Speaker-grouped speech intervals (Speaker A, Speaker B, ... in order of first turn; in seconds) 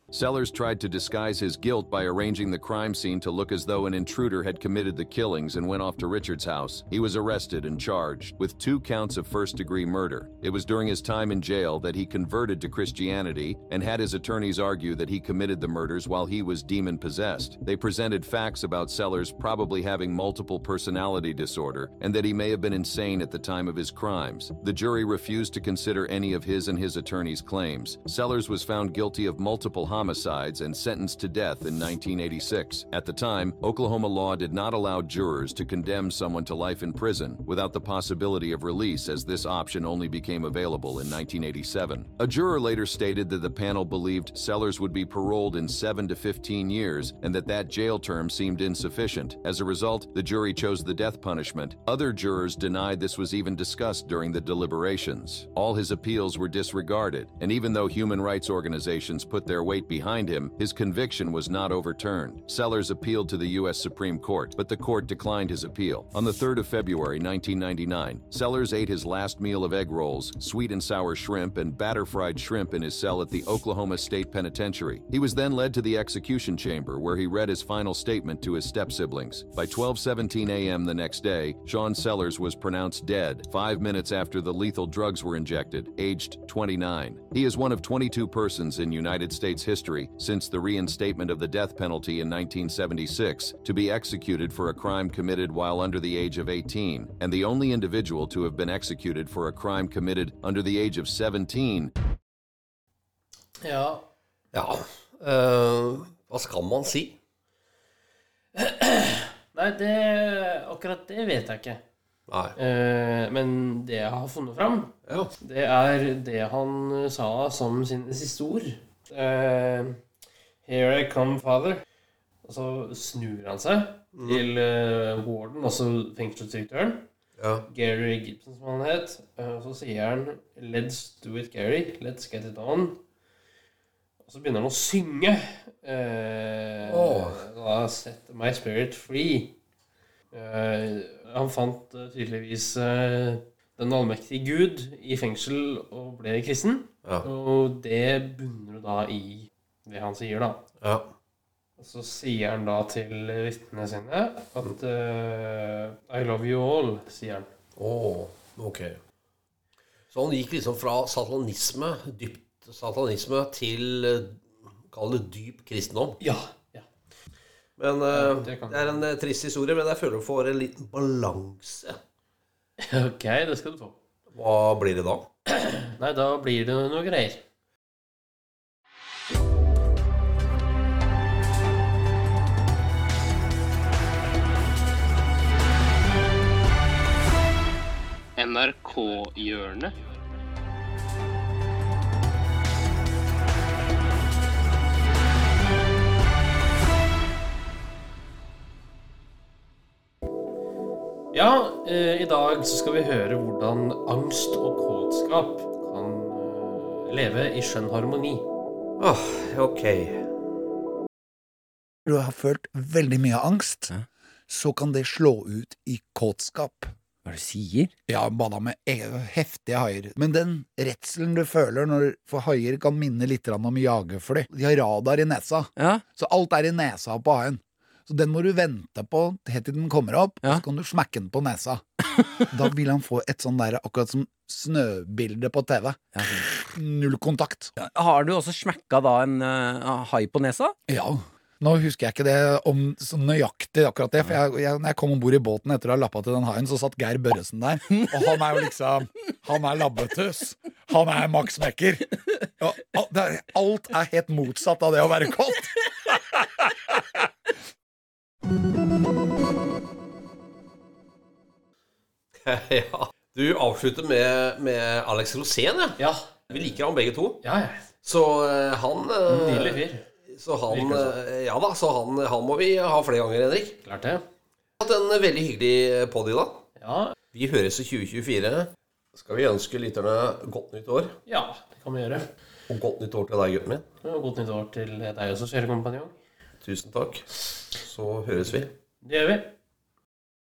Speaker A: 0.1-101.9
Speaker B: 103.6-104.0, 108.6-111.8, 112.6-120.0, 120.6-121.8, 122.4-127.1, 127.7-133.0, 134.2-139.6, 140.3-150.6, 151.8-157.5, 166.2-166.9, 168.1-169.0, 172.8-174.0, 175.5-177.4, 188.4-189.9, 201.3-208.5, 266.0-266.5, 267.4-267.9, 269.3-270.1, 270.7-271.2, 273.8-274.2, 276.8-277.1, 281.3-282.3, 284.0-286.1, 289.0-289.5
Speaker C: 104.5-107.2, 112.3-112.5, 124.2-124.4, 127.4-127.7, 136.8-137.4, 150.8-151.1, 157.8-159.0, 160.1-166.2, 167.8-172.0, 174.3-175.3, 209.0-210.3, 262.4-267.4, 268.0-273.8, 274.8-276.6, 277.3-281.1, 282.7-283.9, 286.6-288.7
Speaker D: 212.1-216.9, 218.1-237.8, 240.9-257.0
Speaker E: 217.3-217.9, 237.9-240.7